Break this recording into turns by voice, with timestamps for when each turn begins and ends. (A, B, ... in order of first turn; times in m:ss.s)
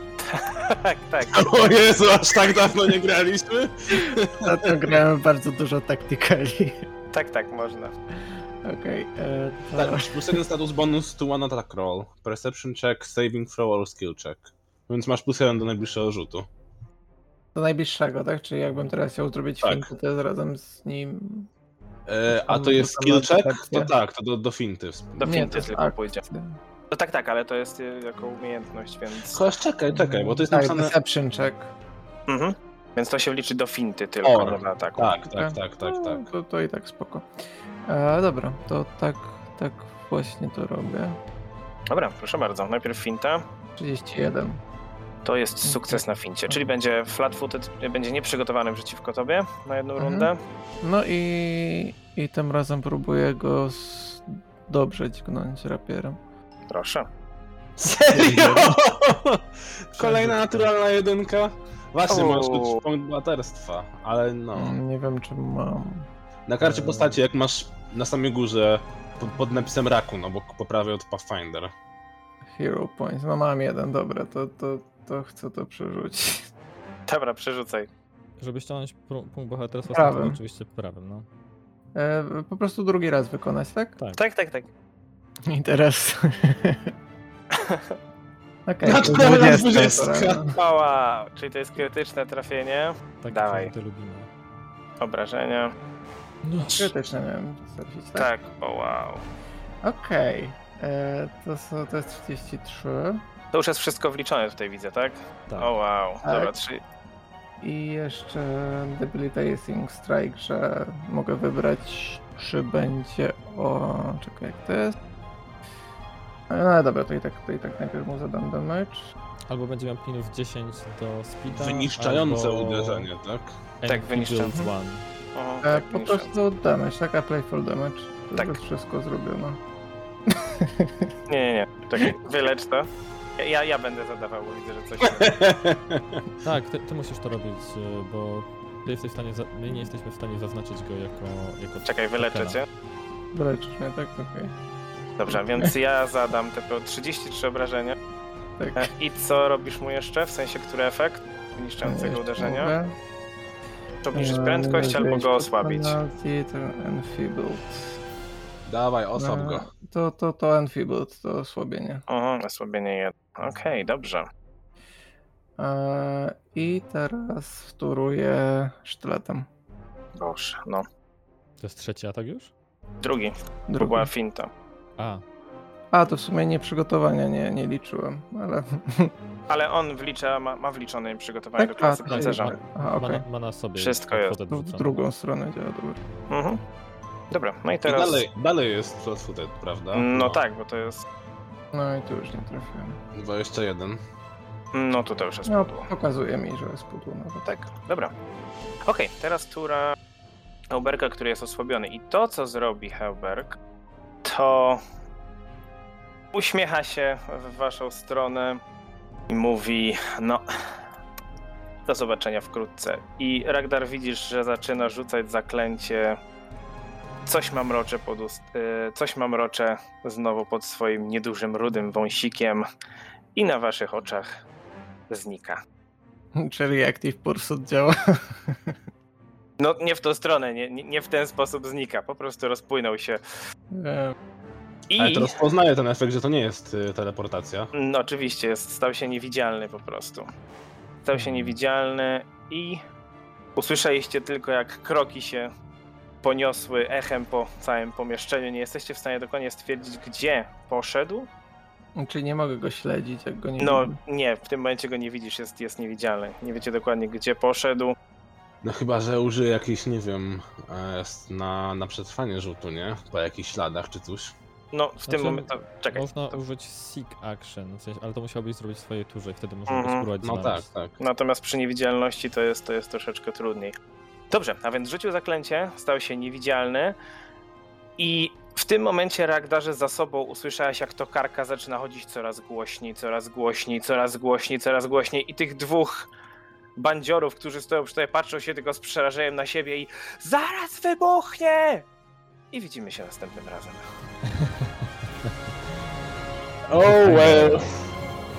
0:00.2-0:01.8 A
0:01.3-0:04.9 B
0:04.4-0:06.8 C
0:07.1-0:07.9 A
0:08.6-0:10.4 C
0:09.7-0:16.5 B
0:17.5-0:21.5 C
0:19.6-0:19.9 B
0:22.1-0:25.5 B
0:22.4-0:23.9 C
0:25.2-0:26.2 A
0:25.2-0:26.6 C
0:26.9-0:29.4 A
0:29.3-0:30.9 B
0:29.9-0:31.7 C
0:32.3-0:35.2 A
0:34.2-0:36.3 B
0:35.3-0:41.2 C
0:41.9-0:43.4 A
0:43.8-0:44.6 C
0:45.2-0:50.4 A
0:45.6-0:46.6 C
0:50.0-0:50.3 C
0:50.8-0:56.2 C
0:56.7-0:57.0 A
0:57.8-1:04.8 B
0:58.1-0:58.8 C
1:00.0-1:00.6 C
1:02.1-1:02.8 A
1:04.5-1:06.1 C
1:06.5-1:11.7 B
1:06.6-1:07.2 C
1:12.5-1:16.5 C
1:17.1-1:17.9 A
1:18.4-1:21.3 D
1:19.9-1:20.4 C
1:21.9-1:24.0 C
1:24.2-1:24.7 A
1:25.5-1:26.9 C
1:27.5-1:27.9 A
1:28.6-1:30.6 C
1:28.8-1:30.4 B
1:30.5-1:33.7 A
1:33.2-1:34.3 D
1:35.0-1:35.7 A
1:36.4-1:36.9 D
1:36.6-1:38.3 C
1:38.1-1:39.2 A
1:39.8-1:43.2 C
1:43.5-1:46.8 A
1:46.2-1:46.5 C
1:47.6-1:54.9 C
1:56.5-1:59.1 C
1:59.5-2:03.1 D
2:01.5-2:03.5 B
2:03.8-2:05.0 D
2:03.8-2:04.6 A
2:05.3-2:06.3 A
2:05.6-2:09.6 C
2:10.3-2:11.1 C
2:11.3-2:15.4 A
2:15.0-2:16.2 B
2:16.4-2:22.6 D
2:21.8-2:22.6 A
2:23.3-2:24.5 C
2:25.2-2:28.0 A
2:25.3-2:25.7 C
2:28.6-2:28.9 C
2:28.8-2:32.7 A
2:31.8-2:33.0 C
2:34.0-2:36.0 A
2:34.1-2:38.0 C
2:38.6-2:39.7 B
2:39.2-2:42.0 C
2:42.1-2:44.2 A
2:45.6-2:49.5 C
2:50.2-2:50.8 A
2:51.6-2:52.5 D
2:53.0-2:54.5 A
2:53.7-2:54.1 C
2:55.0-2:55.2 D
2:55.9-2:59.1 C
2:59.5-3:02.5 A
3:01.6-3:03.2 C
3:02.1-3:05.0 D
3:03.8-3:04.4 A
3:04.5-3:06.0 C
3:06.3-3:06.6 A
3:07.3-3:08.2 A
3:07.8-3:10.4 B
3:09.9-3:11.0 A
3:11.7-3:13.0 C
3:13.1-3:14.0 B
3:14.7-3:15.9 A
3:15.4-3:17.6 C
3:17.4-3:18.1 A
3:18.8-3:20.0 A
3:20.7-3:23.6 A
3:24.2-3:24.8 A
3:26.3-3:28.6 A
3:29.3-3:30.8 A
3:31.8-3:36.2 A
3:37.2-3:42.6 A
3:43.3-3:44.4 A
3:45.1-3:45.6 A
3:46.4-3:48.8 C
3:49.6-3:53.2 A
3:53.7-3:54.1 C
3:54.9-3:55.4 A
3:55.0-3:57.7 B
3:57.7-4:00.3 A
4:01.0-4:02.8 A
4:01.1-4:01.6 D
4:03.6-4:05.5 A
4:06.2-4:11.3 A
4:12.0-4:13.9 C
4:13.6-4:18.0 A
4:18.6-4:24.3 B
4:24.7-4:26.4 A
4:25.0-4:30.7 D
4:29.7-4:30.0 A
4:30.2-4:30.9 B
4:31.0-4:33.7 A
4:34.3-4:37.0 A
4:38.0-4:46.1 A
4:46.8-4:51.8 A
4:52.5-4:53.9 A
4:54.4-4:54.7 D
4:56.7-4:57.7 B
4:56.9-4:57.6 D